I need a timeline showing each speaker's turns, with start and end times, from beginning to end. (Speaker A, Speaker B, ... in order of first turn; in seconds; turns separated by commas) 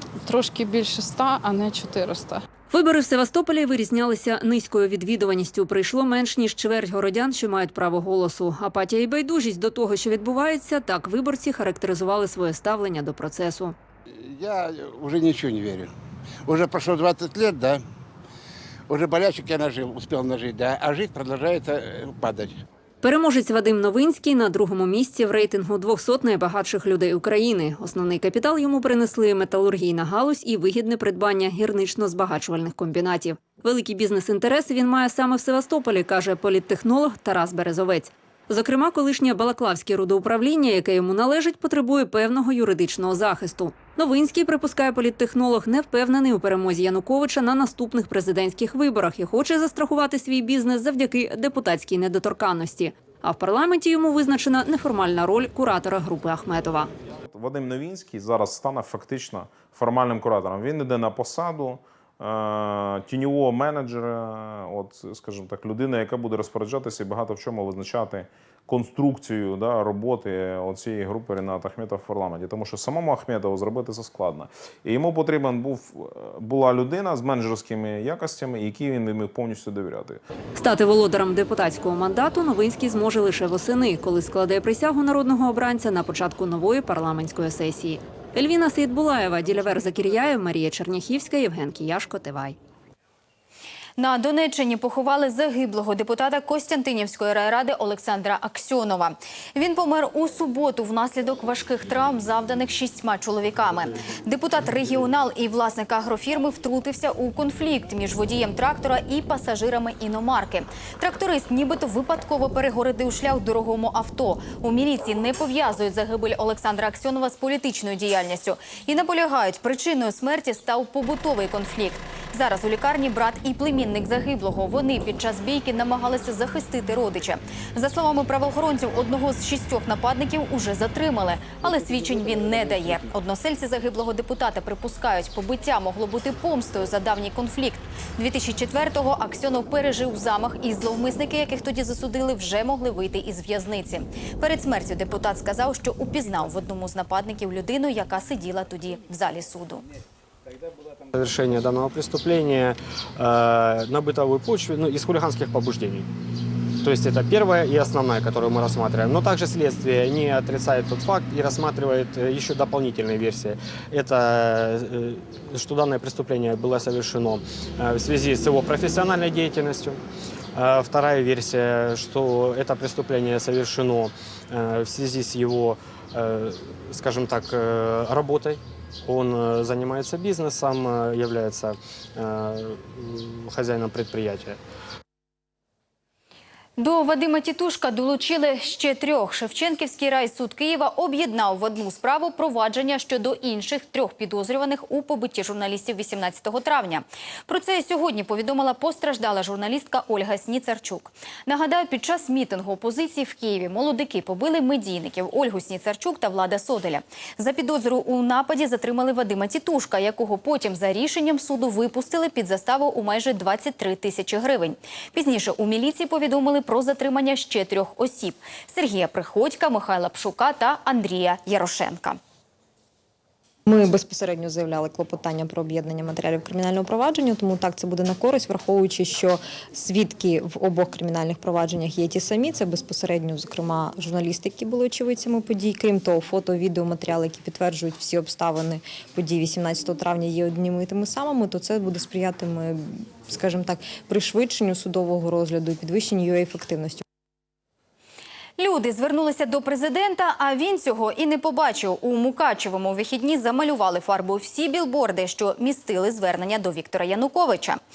Speaker A: 0.2-2.4, Speaker B: 2.7-13.8, Speaker C: 14.2-15.9, Speaker C: 16.4-17.8, Speaker C: 18.9-22.6, Speaker B: 23.0-56.9, Speaker D: 57.3-80.2, Speaker B: 80.5-92.6, Speaker E: 94.0-149.8, Speaker F: 151.1-156.1, Speaker F: 156.8-170.0, Speaker F: 170.5-184.6, Speaker E: 186.8-222.2, Speaker G: 223.7-247.0, Speaker E: 248.6-257.8